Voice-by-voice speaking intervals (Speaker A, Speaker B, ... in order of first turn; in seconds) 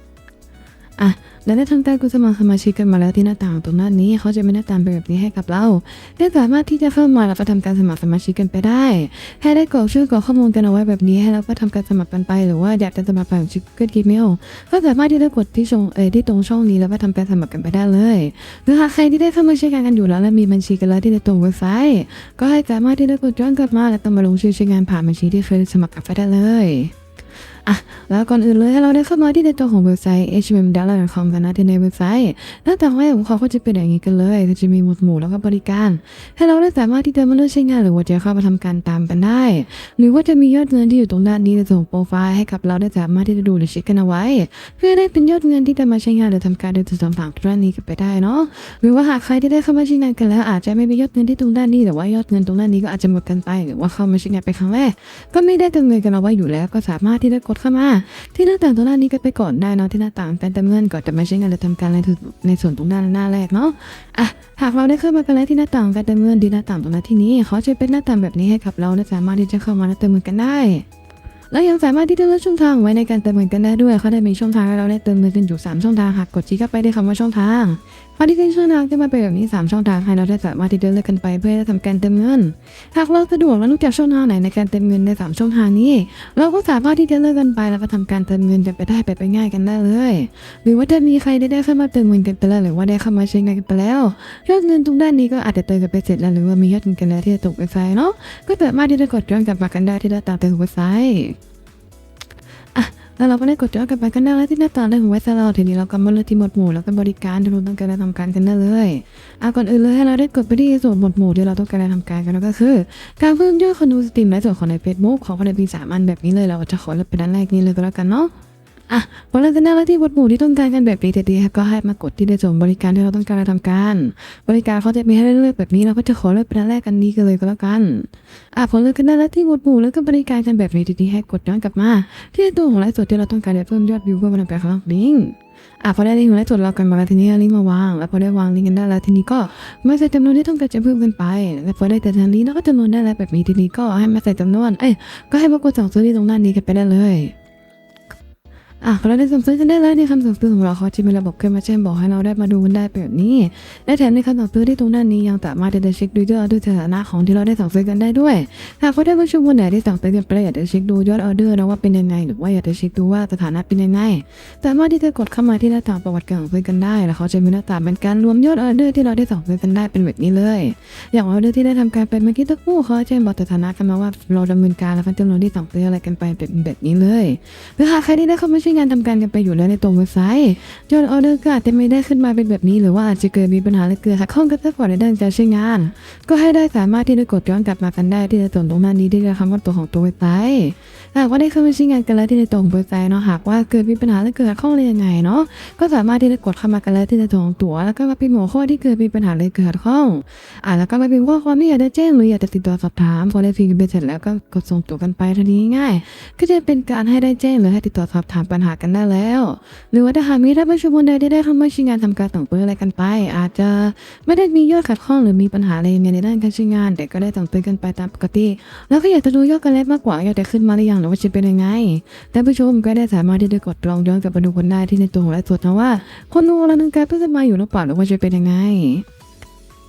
Speaker A: 1.0-26.9, 27.7-70.9, 71.5-101.3, 102.8-118.3, 118.9-147.3, 148.8-229.0